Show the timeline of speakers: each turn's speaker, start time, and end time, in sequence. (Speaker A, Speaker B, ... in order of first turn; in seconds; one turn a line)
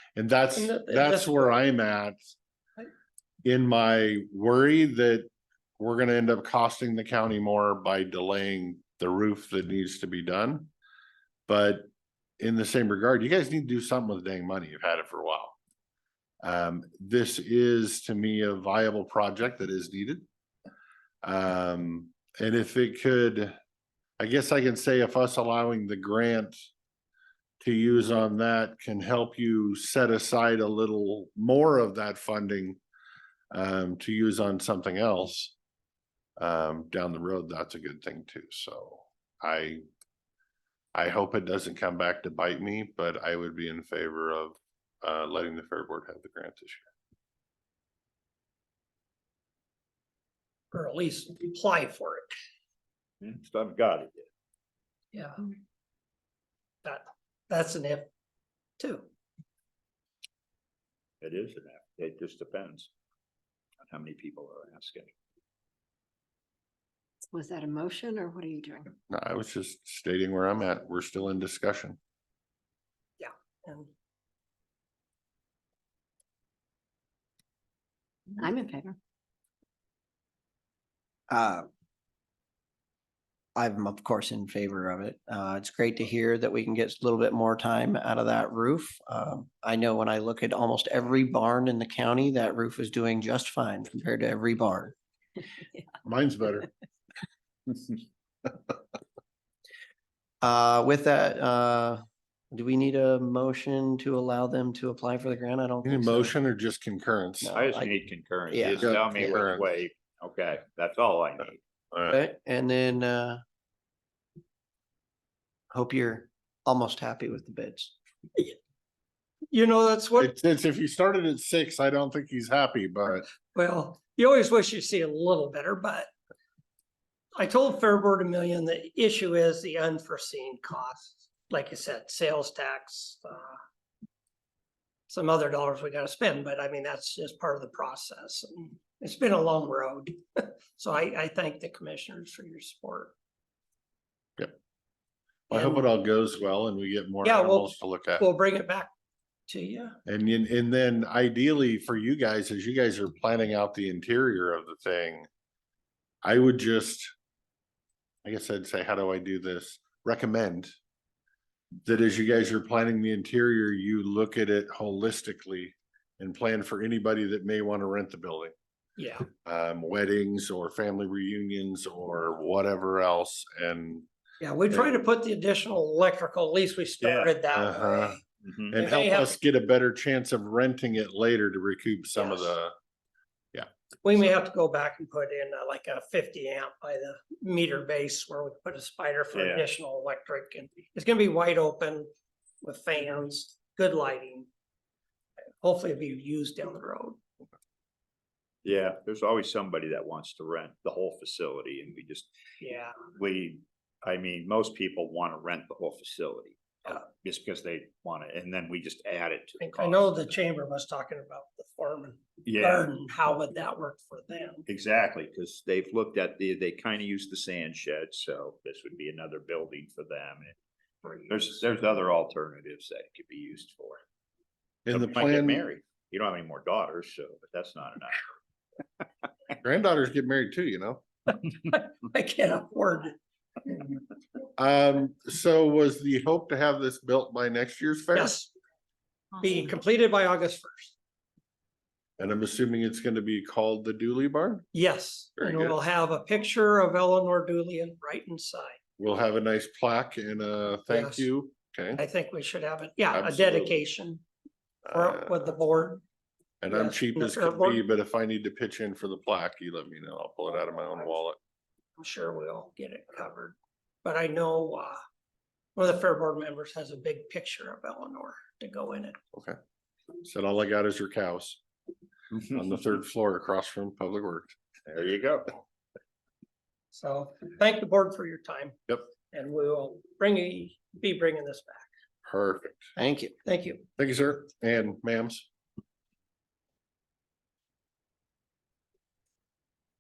Speaker A: 0.2-2.3
Speaker B: 0.5-1.6
Speaker A: 3.5-5.3
Speaker A: 5.8-10.7
Speaker A: 11.5-11.9
Speaker A: 12.4-15.6
Speaker A: 16.4-20.2
Speaker A: 21.2-23.6
Speaker A: 24.2-26.7
Speaker A: 27.6-32.8
Speaker A: 33.5-35.5
Speaker A: 36.4-39.8
Speaker A: 41.0-46.9
Speaker B: 50.7-52.3
Speaker C: 53.2-54.3
Speaker B: 55.1-55.5
Speaker B: 56.8-58.1
Speaker B: 58.8-59.1
Speaker C: 61.2-62.9
Speaker C: 63.8-65.1
Speaker D: 67.3-68.9
Speaker A: 69.1-72.0
Speaker B: 73.2-73.9
Speaker D: 78.4-79.0
Speaker E: 81.3-81.7
Speaker E: 83.6-94.9
Speaker A: 96.0-96.7
Speaker E: 100.4-106.3
Speaker A: 105.8-107.5
Speaker E: 107.4-109.5
Speaker C: 107.5-111.6
Speaker A: 108.8-109.6
Speaker E: 112.1-113.4
Speaker E: 115.7-117.9
Speaker B: 119.5-120.3
Speaker A: 120.2-123.3
Speaker B: 123.5-126.1
Speaker B: 127.4-133.6
Speaker B: 135.1-143.2
Speaker A: 145.5-148.3
Speaker B: 145.5-145.9
Speaker B: 147.2-148.9
Speaker B: 149.5-150.0
Speaker A: 150.1-155.3
Speaker A: 156.2-157.1
Speaker A: 158.2-160.7
Speaker A: 161.8-168.5
Speaker B: 169.0-169.3
Speaker A: 169.4-174.1
Speaker B: 174.4-179.3
Speaker A: 174.7-175.0
Speaker C: 177.0-177.4
Speaker A: 177.5-178.2
Speaker C: 178.4-178.8
Speaker A: 178.7-182.7
Speaker B: 182.2-182.5
Speaker B: 184.0-192.1
Speaker C: 189.3-189.7
Speaker B: 192.6-194.5
Speaker B: 195.6-197.2
Speaker C: 198.6-202.3
Speaker B: 202.6-203.0
Speaker C: 203.1-210.3
Speaker B: 209.6-214.6
Speaker C: 212.4-212.9
Speaker C: 214.7-220.6
Speaker B: 221.0-221.4
Speaker C: 221.3-224.0
Speaker A: 224.9-225.7
Speaker C: 224.9-228.3
Speaker A: 229.6-231.0
Speaker B: 231.7-233.2
Speaker B: 233.7-233.9
Speaker A: 234.6-238.4
Speaker B: 238.2-238.5
Speaker B: 239.4-240.9
Speaker A: 242.2-244.7
Speaker B: 244.7-248.8
Speaker A: 245.4-245.8
Speaker A: 249.0-252.0
Speaker B: 250.9-251.3
Speaker B: 251.9-254.2
Speaker A: 253.1-253.8
Speaker A: 254.8-255.6
Speaker B: 254.9-256.0
Speaker A: 256.6-261.4
Speaker B: 256.7-257.8
Speaker B: 262.0-265.0
Speaker B: 265.8-269.2
Speaker A: 270.2-271.6
Speaker A: 272.5-274.6
Speaker C: 274.9-275.5
Speaker B: 276.9-281.9
Speaker A: 282.3-282.9
Speaker E: 283.0-283.3
Speaker B: 283.4-283.8
Speaker A: 284.0-285.5